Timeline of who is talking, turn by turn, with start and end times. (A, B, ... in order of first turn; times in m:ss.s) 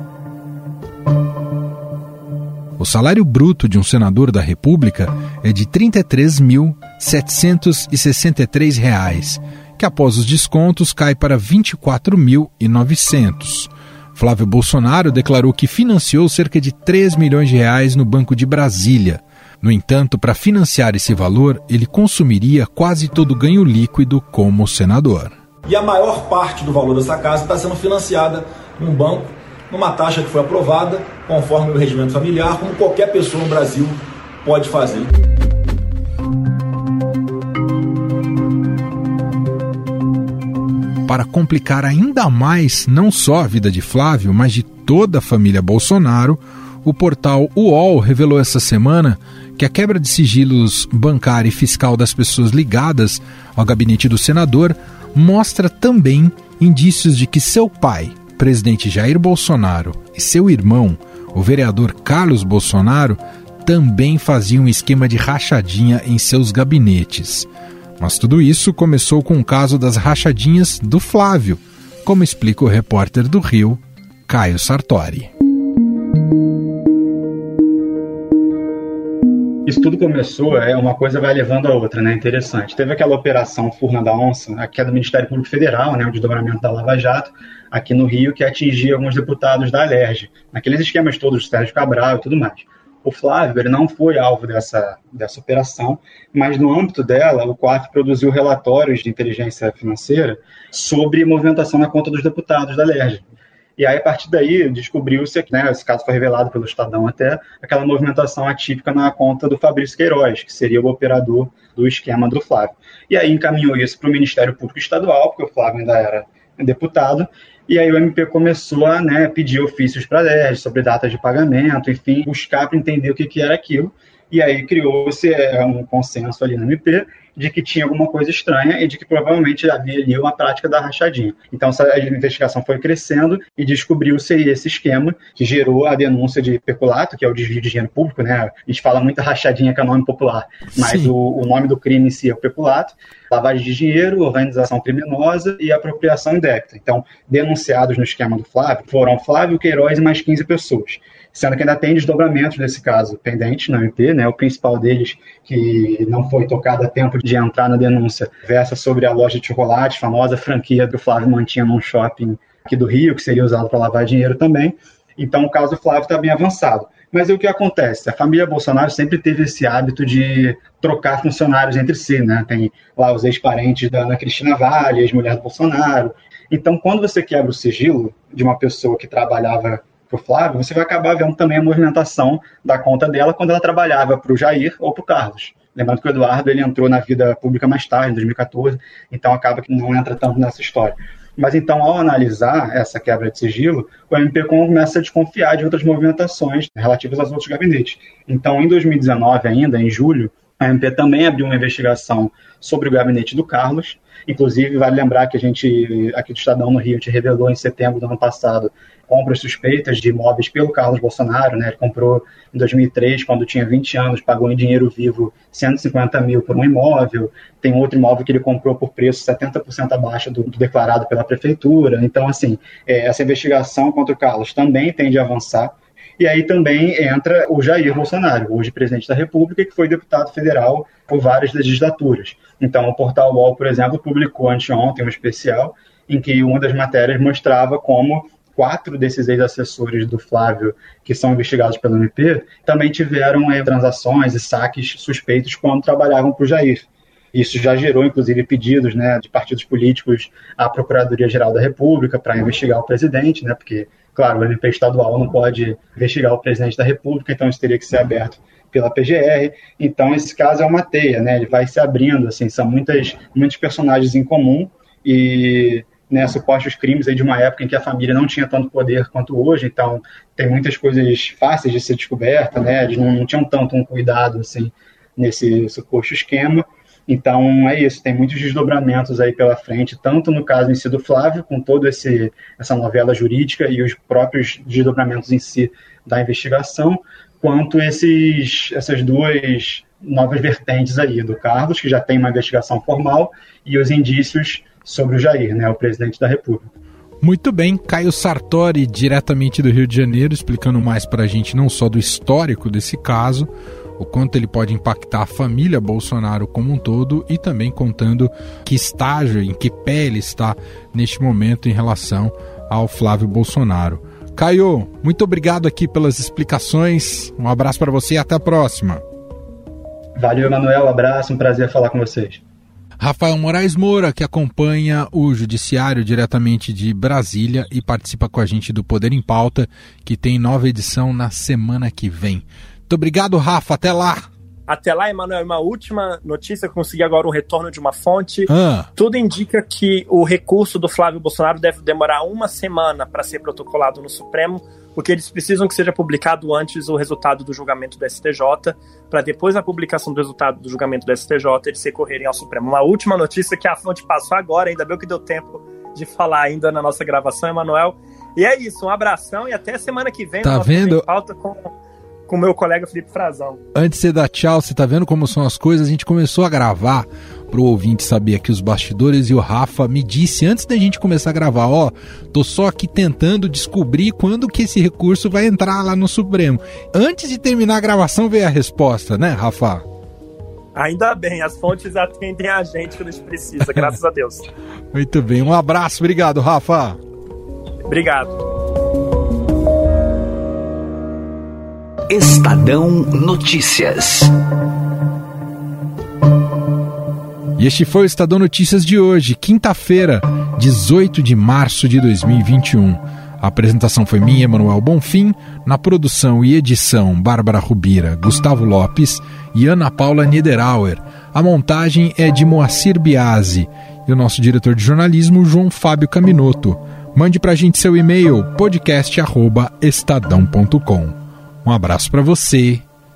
0:02.8-0:25.3 A
0:25.6-0:35.1 B
0:41.1-1:15.3 A
1:19.7-1:43.3 C
1:43.8-4:56.7 C
2:20.8-2:21.1 A
4:57.2-5:19.0 A
5:20.2-5:22.4 C
5:23.0-5:34.3 A
5:34.7-6:01.7 D
5:38.5-5:38.9 A
6:00.4-6:01.0 A
6:02.3-6:03.6 D
6:03.8-6:19.8 A
6:20.8-6:24.5 D
6:23.6-6:23.9 A
6:24.9-6:27.0 A
6:27.9-6:28.4 D
6:32.1-6:34.3 E
6:37.6-7:02.8 A